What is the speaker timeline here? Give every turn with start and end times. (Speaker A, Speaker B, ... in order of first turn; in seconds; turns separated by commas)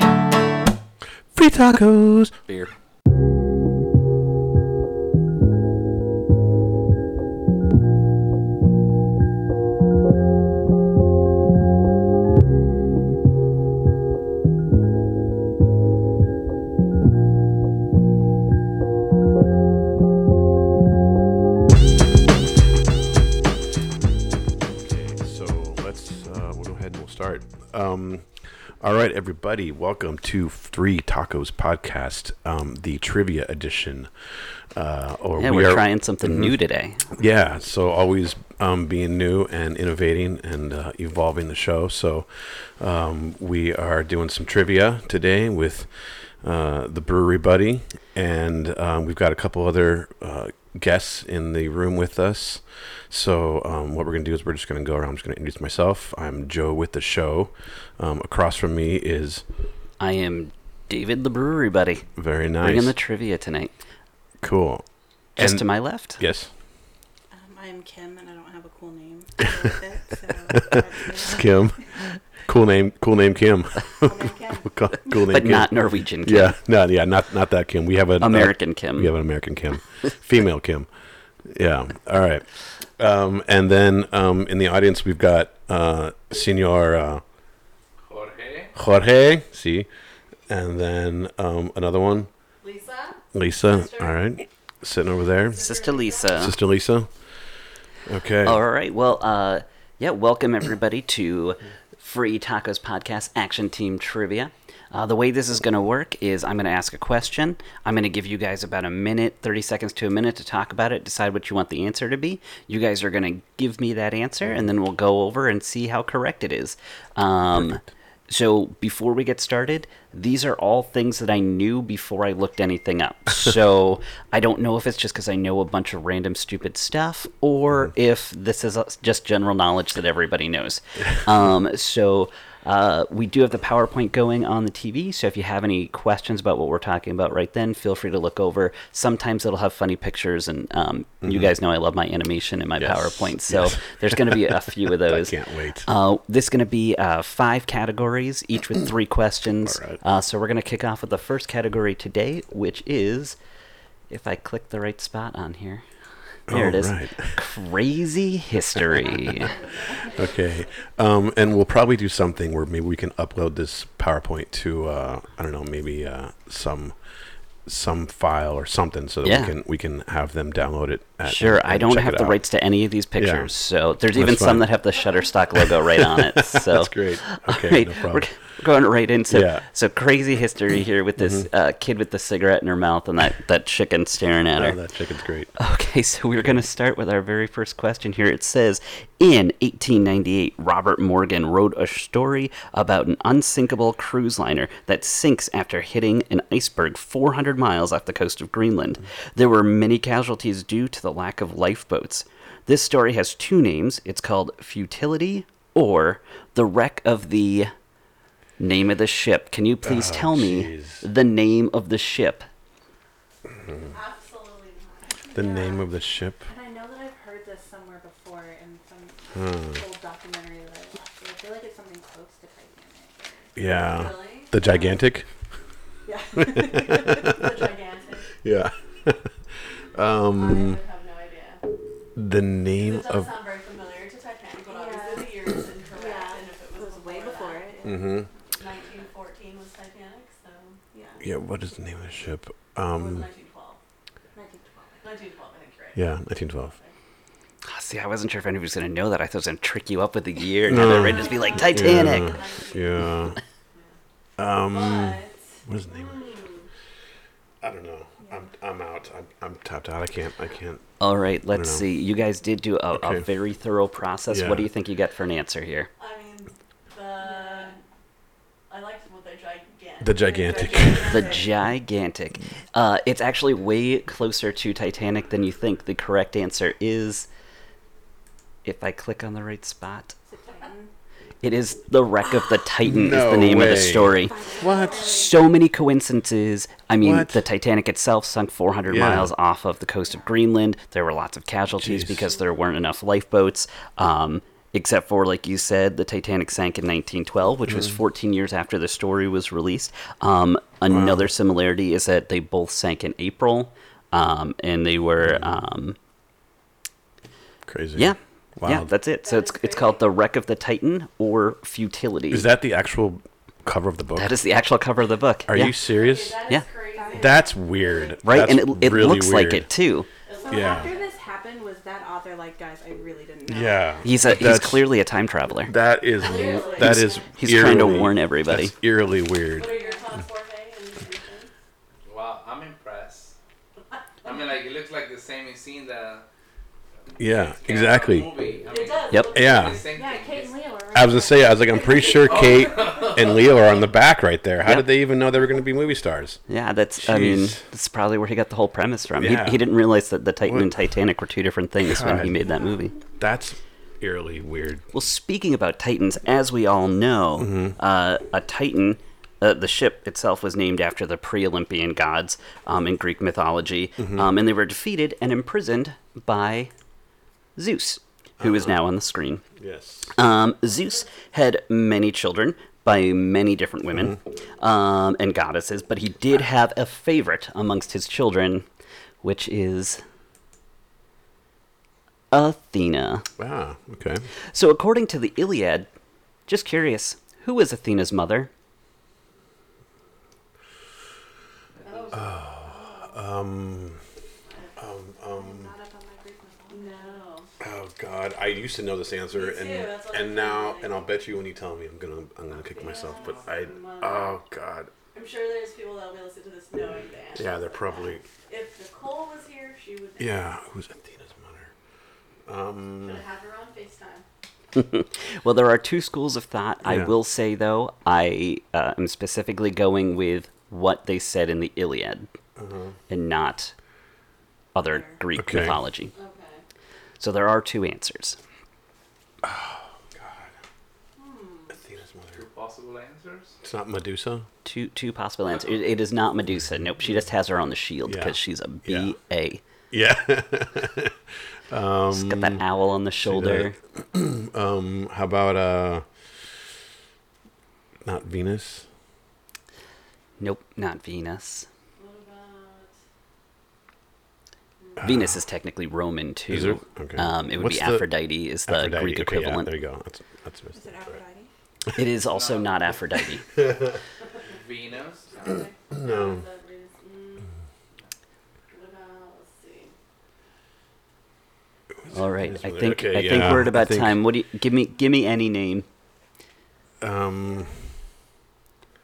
Speaker A: 1.3-2.5, Speaker A: 24.6-34.1, Speaker A: 34.7-36.5, Speaker B: 35.4-37.1, Speaker A: 37.1-59.4, Speaker B: 60.0-63.7, Speaker A: 62.2-63.0, Speaker A: 64.4-64.8, Speaker B: 65.4-66.2, Speaker A: 65.4-66.5, Speaker C: 67.3-71.8, Speaker A: 70.5-80.9, Speaker C: 74.0-75.3, Speaker B: 75.3-76.6, Speaker B: 78.2-79.2, Speaker A: 81.4-87.2, Speaker D: 88.1-88.8, Speaker A: 88.8-89.9, Speaker A: 90.5-92.3, Speaker E: 92.6-94.2, Speaker A: 93.3-95.8, Speaker E: 95.5-96.5, Speaker B: 95.6-96.6, Speaker A: 96.3-97.1, Speaker A: 98.0-98.6, Speaker B: 98.4-153.4, Speaker A: 141.2-141.5, Speaker A: 142.8-145.9, Speaker A: 149.7-150.0, Speaker B: 154.1-155.8, Speaker A: 156.5-157.4, Speaker B: 156.5-159.5, Speaker E: 159.4-160.4, Speaker A: 160.1-167.0, Speaker A: 167.7-172.4, Speaker B: 169.2-169.5, Speaker B: 171.2-184.8, Speaker A: 173.2-173.5, Speaker A: 174.1-174.6, Speaker A: 175.9-178.3, Speaker A: 179.3-179.7, Speaker A: 181.2-181.5, Speaker A: 184.6-185.5, Speaker B: 185.6-207.7, Speaker B: 208.6-212.5, Speaker A: 209.8-211.0, Speaker E: 213.8-215.2, Speaker C: 215.2-215.9, Speaker A: 215.3-216.4, Speaker C: 216.4-223.6, Speaker A: 219.3-219.8, Speaker A: 223.6-225.3, Speaker E: 223.7-224.8, Speaker C: 226.1-227.4, Speaker A: 226.4-227.5, Speaker E: 227.2-228.3, Speaker A: 228.4-229.4, Speaker A: 229.9-230.8, Speaker E: 230.3-231.6, Speaker A: 232.2-233.3, Speaker E: 232.8-237.7, Speaker C: 234.7-235.4, Speaker C: 235.9-238.2, Speaker A: 237.8-238.3, Speaker E: 238.5-240.8, Speaker C: 240.9-241.2, Speaker A: 241.2-243.3, Speaker E: 242.9-243.8, Speaker C: 244.3-245.1, Speaker E: 245.0-246.1, Speaker A: 245.9-246.7, Speaker B: 247.7-252.4, Speaker A: 250.7-253.4, Speaker E: 251.2-253.9, Speaker A: 254.4-256.4, Speaker E: 254.7-256.7, Speaker A: 257.6-260.9, Speaker B: 261.0-265.9, Speaker A: 261.5-261.8, Speaker A: 262.9-263.3, Speaker A: 264.3-264.7, Speaker E: 266.0-267.8, Speaker C: 267.2-267.8, Speaker E: 268.7-271.5, Speaker A: 270.0-271.3, Speaker C: 270.2-271.5, Speaker B: 271.0-277.3, Speaker B: 278.6-280.1, Speaker C: 280.3-280.9, Speaker B: 281.4-306.0, Speaker A: 282.8-285.1, Speaker C: 284.3-285.4, Speaker A: 287.0-287.4, Speaker A: 288.9-289.3, Speaker A: 291.8-292.3, Speaker A: 300.9-301.3, Speaker A: 307.7-308.9, Speaker B: 308.0-312.5, Speaker E: 309.2-310.0, Speaker A: 312.3-314.4, Speaker B: 314.1-315.8, Speaker A: 315.5-316.4, Speaker E: 315.8-318.2, Speaker C: 316.9-317.5, Speaker A: 317.1-319.7, Speaker B: 318.2-320.1, Speaker E: 320.3-321.2, Speaker C: 320.3-324.0, Speaker A: 320.5-320.9, Speaker A: 323.5-324.9, Speaker B: 324.0-325.7, Speaker A: 325.7-329.7, Speaker E: 326.2-327.3, Speaker B: 326.8-328.7, Speaker E: 329.5-331.5, Speaker C: 329.6-330.1, Speaker D: 332.1-333.4, Speaker D: 334.2-336.3, Speaker D: 337.1-340.6, Speaker A: 337.2-338.3, Speaker E: 338.7-340.1, Speaker A: 339.3-339.9, Speaker C: 339.9-342.1, Speaker A: 340.9-346.4, Speaker E: 341.7-343.6, Speaker D: 342.2-343.4, Speaker B: 346.5-353.0, Speaker A: 347.0-347.6, Speaker A: 349.2-349.6, Speaker A: 350.4-350.7, Speaker A: 351.9-352.4, Speaker A: 353.2-354.8, Speaker B: 354.9-366.7, Speaker A: 357.4-357.8, Speaker A: 364.0-364.3, Speaker B: 367.6-369.4, Speaker A: 368.4-368.8, Speaker A: 369.6-370.1, Speaker B: 370.1-378.7, Speaker B: 379.2-380.0, Speaker B: 382.3-383.3, Speaker A: 383.4-384.2, Speaker B: 384.5-385.9, Speaker B: 386.5-388.5, Speaker D: 391.8-392.2, Speaker E: 391.8-392.9, Speaker A: 392.1-394.0, Speaker E: 394.5-394.8, Speaker A: 394.8-395.7, Speaker C: 395.3-397.2, Speaker E: 396.7-397.5, Speaker A: 397.6-404.9, Speaker E: 399.3-401.0, Speaker E: 402.7-404.4, Speaker D: 403.1-403.5, Speaker E: 405.1-410.5, Speaker A: 407.4-408.2, Speaker A: 410.2-411.7, Speaker A: 412.5-413.2, Speaker E: 413.0-414.2, Speaker B: 414.8-422.3, Speaker A: 416.9-417.1, Speaker A: 422.6-423.0, Speaker B: 423.1-423.7, Speaker B: 424.8-426.1, Speaker C: 424.9-425.2, Speaker A: 425.4-425.8, Speaker E: 426.1-426.6, Speaker B: 427.2-428.4, Speaker A: 429.4-430.6, Speaker E: 431.2-431.8, Speaker A: 431.7-432.4, Speaker D: 432.3-433.6, Speaker A: 433.6-434.5, Speaker B: 434.6-439.6, Speaker A: 438.1-439.1, Speaker A: 439.9-441.2, Speaker A: 441.7-442.6, Speaker B: 442.1-443.8, Speaker A: 443.2-446.1, Speaker A: 448.1-448.9, Speaker B: 450.4-451.7, Speaker E: 452.0-452.9, Speaker A: 455.0-455.4, Speaker B: 455.0-459.7, Speaker A: 456.5-458.1, Speaker A: 458.6-461.2, Speaker C: 460.7-461.5, Speaker B: 461.9-463.5, Speaker D: 462.3-462.8, Speaker A: 463.6-464.0, Speaker D: 464.4-465.3, Speaker E: 465.3-467.5, Speaker A: 465.9-466.4, Speaker E: 468.7-469.9, Speaker A: 472.1-474.2, Speaker B: 472.1-475.9, Speaker A: 477.0-477.7, Speaker E: 477.5-477.8